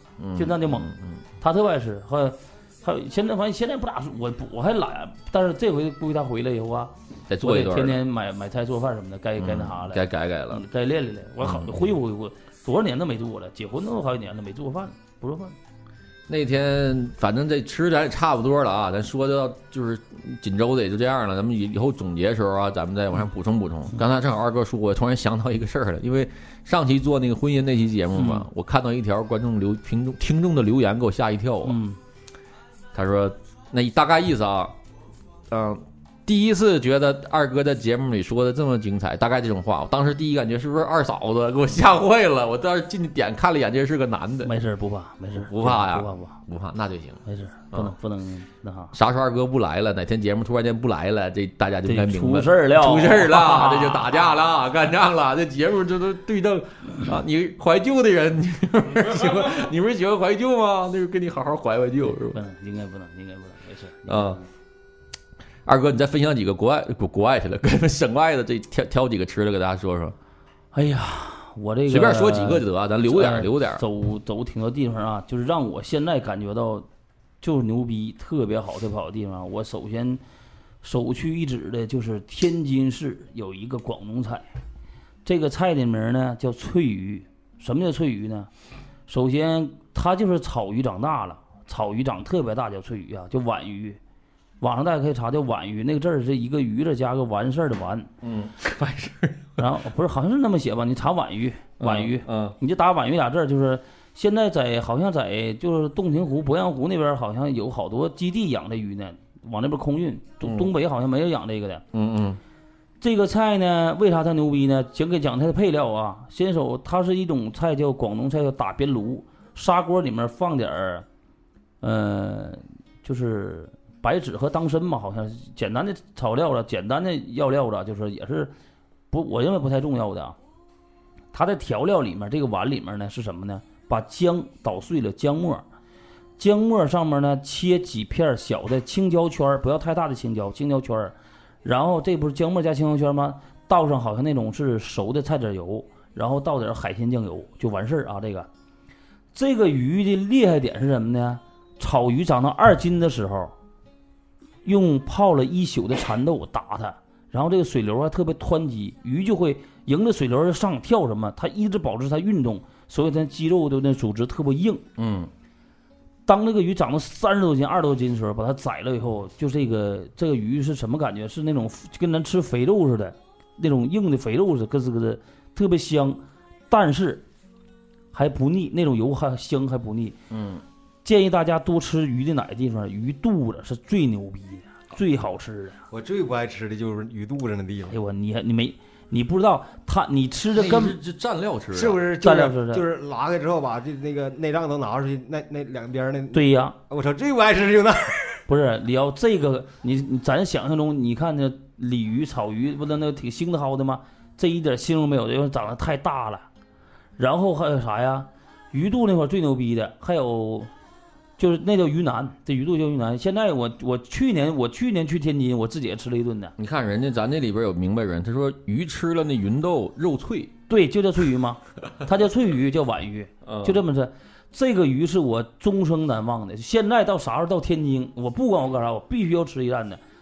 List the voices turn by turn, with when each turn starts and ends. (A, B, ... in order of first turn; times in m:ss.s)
0:00.2-0:01.2 A
0:00.4-0:00.9 B
0:01.4-0:15.6 B
0:07.3-0:08.0 A
0:09.4-0:10.6 A
0:11.4-0:11.8 A
0:16.3-0:31.8 A
0:28.2-0:28.5 B
0:31.6-0:32.0 B
0:32.9-0:34.8 A
0:35.5-0:44.5 A
0:44.4-0:46.4 B
0:45.4-0:47.9 A
0:47.3-0:48.9 B
0:48.9-1:02.4 A
0:51.8-0:54.2 B
1:02.3-1:04.4 B
1:04.1-1:04.4 A
1:05.7-1:10.2 A
1:10.7-1:16.9 B
1:11.9-1:13.8 A
1:17.4-1:20.2 B
1:20.8-1:24.5 B
1:25.2-1:28.5 B
1:29.1-1:34.0 B
1:34.6-1:38.1 B
1:38.2-1:39.6 A
1:39.6-1:51.8 B
1:41.8-1:42.6 A
1:50.4-1:50.7 A
1:51.9-1:52.4 A
1:53.0-2:01.1 B
2:01.8-2:08.5 B
2:09.1-2:10.4 B
2:11.3-2:15.6 B
2:16.4-2:28.5 B
2:29.3-2:33.5 B
2:34.6-2:44.8 B
2:45.0-2:45.3 A
2:46.3-2:57.2 B
2:58.1-3:00.2 B
3:00.3-3:00.6 A
3:01.0-3:05.8 B
3:05.9-3:08.0 C
3:07.9-3:11.0 B
3:10.5-3:12.0 A
3:11.7-3:18.4 C
3:12.2-3:12.8 B
3:16.3-3:16.8 B
3:18.5-3:26.5 B
3:27.2-3:30.7 B
3:31.4-3:36.6 B
3:36.6-3:40.5 A
3:40.7-3:50.0 B
3:43.4-3:43.8 A